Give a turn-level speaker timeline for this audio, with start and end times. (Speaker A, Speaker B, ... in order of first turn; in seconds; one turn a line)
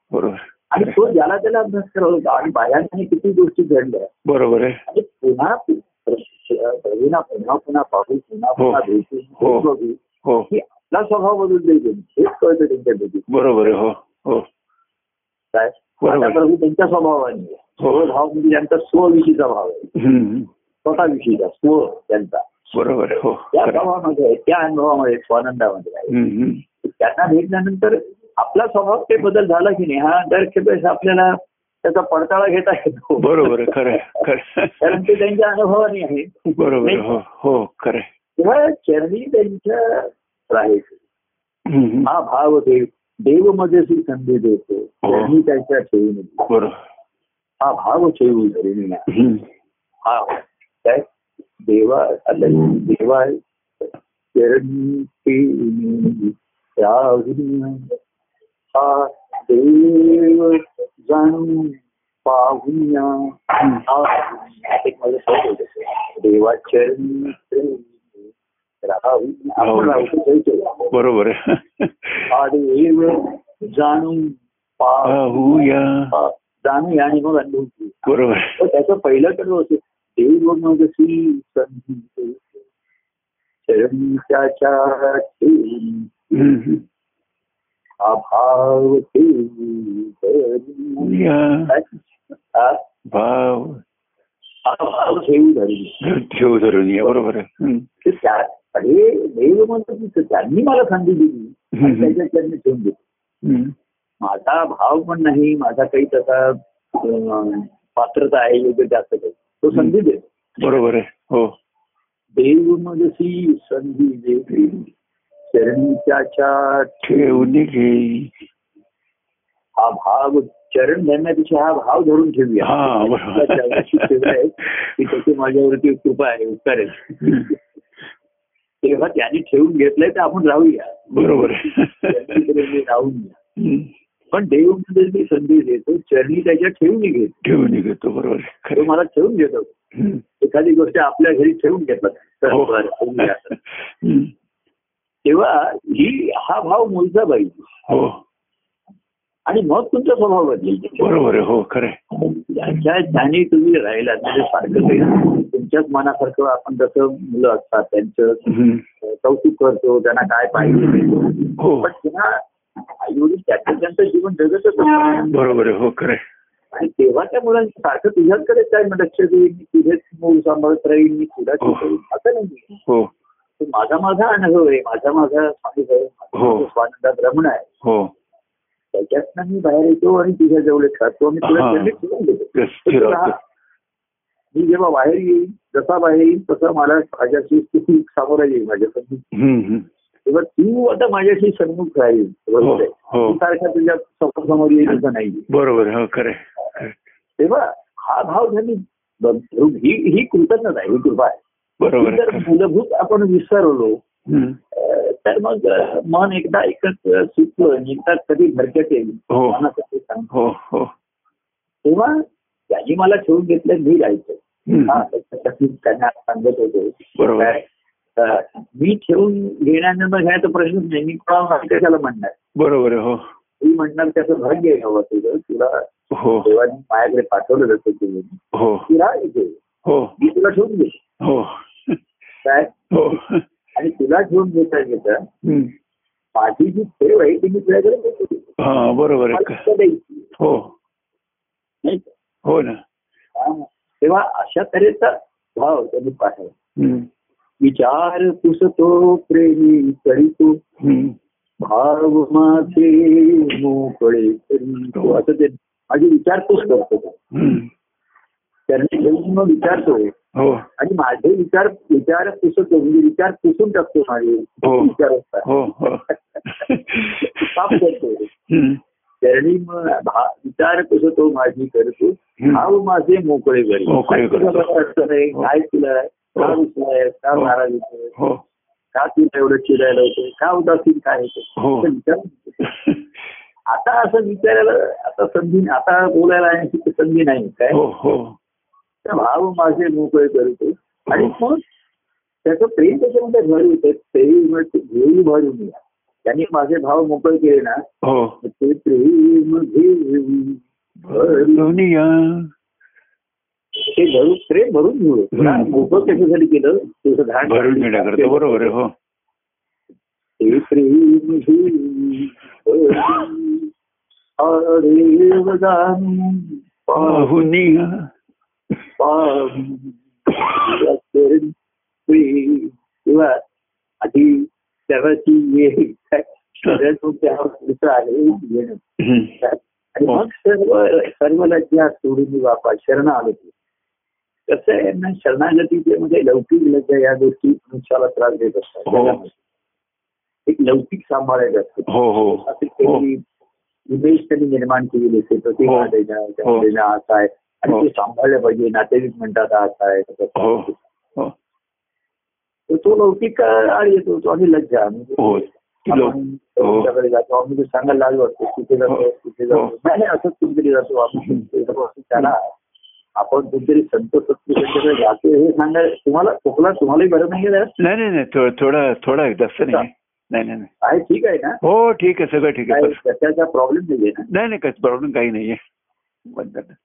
Speaker A: 0.1-0.9
Speaker B: 0.7-4.1
Speaker A: 4.2-4.8
Speaker B: 4.9-13.3
Speaker A: 8.6-8.8
Speaker A: 9.4-9.7
Speaker A: 13.3-14.5
Speaker B: 15.5-19.9
Speaker A: 16.0-16.4
Speaker A: 17.8-18.1
Speaker A: 19.9-20.5
Speaker B: 20.8-22.5
Speaker A: 22.7-23.8
Speaker B: 23.5-26.1
Speaker A: 26.1-26.6
Speaker B: 26.8-34.2
Speaker A: 33.2-35.1
Speaker B: 34.8-37.1
Speaker A: 36.5-38.1
Speaker B: 38.4-41.0
Speaker A: 41.6-42.1
Speaker B: 42.0-46.5
Speaker A: 45.0-45.3
Speaker A: 46.5-46.8
Speaker B: 47.6-49.1
Speaker A: 49.1-49.4
Speaker B: 50.0-51.0
Speaker B: 51.6-58.0
Speaker B: 58.7-68.3
Speaker B: 68.8-70.9
Speaker A: 69.6-70.1
Speaker A: 70.9-72.2
Speaker B: 72.3-75.4
Speaker A: 75.0-76.1
Speaker B: 76.1-82.4
Speaker A: 78.1-78.6
Speaker B: 83.7-86.1
Speaker A: 86.3-86.8
Speaker B: 88.0-91.9
Speaker A: 91.0-91.7
Speaker B: 92.5-92.8
Speaker A: 93.1-93.8
Speaker B: 94.6-96.0
Speaker A: 96.0-97.9
Speaker B: 98.0-103.0
Speaker A: 101.7-102.1
Speaker A: 103.4-103.7
Speaker B: 104.2-110.7
Speaker A: 110.6-111.5
Speaker B: 112.4-114.9
Speaker B: 115.5-117.5
Speaker A: 117.0-118.3
Speaker B: 119.8-127.6
Speaker A: 122.6-124.3
Speaker A: 127.2-127.5
Speaker B: 128.8-133.4
Speaker A: 131.1-132.5
Speaker A: 133.6-133.9
Speaker B: 134.3-137.4
Speaker A: 137.4-138.9
Speaker B: 138.7-139.7
Speaker A: 139.9-140.2
Speaker B: 140.4-143.6
Speaker A: 142.5-144.3
Speaker B: 145.2-147.7
Speaker A: 147.9-148.2
Speaker B: 149.5-151.2
Speaker A: 151.0-152.0
Speaker B: 152.2-158.5
Speaker A: 158.4-158.8
Speaker B: 159.0-165.5
Speaker A: 161.6-161.9
Speaker A: 165.3-166.2
Speaker B: 166.7-172.8
Speaker A: 171.6-171.9
Speaker B: 173.6-177.7
Speaker A: 176.3-176.7
Speaker A: 177.8-178.1
Speaker B: 178.9-183.4
Speaker A: 181.4-181.9
Speaker A: 182.5-183.3
Speaker B: 184.5-189.2
Speaker A: 189.3-189.9
Speaker B: 190.2-195.5
Speaker A: 192.6-193.4
Speaker A: 195.5-196.9
Speaker B: 197.4-201.4
Speaker A: 201.8-202.5
Speaker B: 201.9-204.0
Speaker A: 204.3-204.6
Speaker B: 204.7-210.3
Speaker A: 209.3-209.6
Speaker A: 210.3-210.9
Speaker B: 211.8-217.6
Speaker A: 214.7-215.0
Speaker A: 217.2-217.6
Speaker B: 218.2-222.3
Speaker A: 222.6-223.2
Speaker B: 223.6-225.8
Speaker A: 226.1-226.5
Speaker B: 226.4-229.6
Speaker A: 228.5-228.9
Speaker A: 229.8-230.1
Speaker B: 230.2-231.0
Speaker A: 231.2-232.0
Speaker B: 232.4-232.7
Speaker A: 232.9-233.4
Speaker B: 233.8-235.2
Speaker A: 235.4-235.7
Speaker B: 236.3-238.6
Speaker A: 238.6-239.6
Speaker B: 239.3-240.3
Speaker A: 240.4-240.7
Speaker B: 241.8-242.1
Speaker A: 242.4-242.8
Speaker B: 243.3-246.5
Speaker A: 246.8-247.1
Speaker B: 247.6-250.6
Speaker A: 250.8-251.2
Speaker B: 251.6-257.2
Speaker A: 254.9-255.2
Speaker A: 257.3-257.7
Speaker B: 258.7-260.1
Speaker A: 260.3-260.6
Speaker B: 260.8-268.3
Speaker A: 264.6-267.8
Speaker A: 268.5-268.8
Speaker B: 269.2-278.1
Speaker A: 272.4-272.6
Speaker A: 273.9-274.7
Speaker A: 278.2-278.4
Speaker B: 278.9-282.7
Speaker A: 281.6-281.9
Speaker A: 282.6-283.0
Speaker B: 283.7-287.8
Speaker A: 287.7-288.4
Speaker B: 289.0-291.6
Speaker A: 291.1-291.4
Speaker B: 292.4-297.8
Speaker A: 298.0-298.4
Speaker B: 298.4-301.7
Speaker A: 301.1-302.5
Speaker B: 303.8-308.7
Speaker A: 305.3-305.9
Speaker A: 307.5-308.9
Speaker B: 310.4-313.7
Speaker B: 314.4-317.4
Speaker A: 317.0-318.1
Speaker B: 319.0-321.5
Speaker B: 322.1-323.4
Speaker B: 324.0-333.5
Speaker A: 329.0-329.3
Speaker B: 334.5-339.4
Speaker A: 338.9-339.2
Speaker B: 340.5-343.2
Speaker A: 341.9-343.1
Speaker B: 343.9-350.8
Speaker A: 345.6-345.9
Speaker A: 350.4-351.3
Speaker B: 352.7-362.5
Speaker A: 355.2-356.9
Speaker A: 358.9-359.7
Speaker B: 363.2-367.7
Speaker A: 367.8-370.7
Speaker B: 370.8-371.6
Speaker A: 371.6-373.0
Speaker B: 372.7-374.3
Speaker A: 374.3-375.6
Speaker A: 376.2-376.7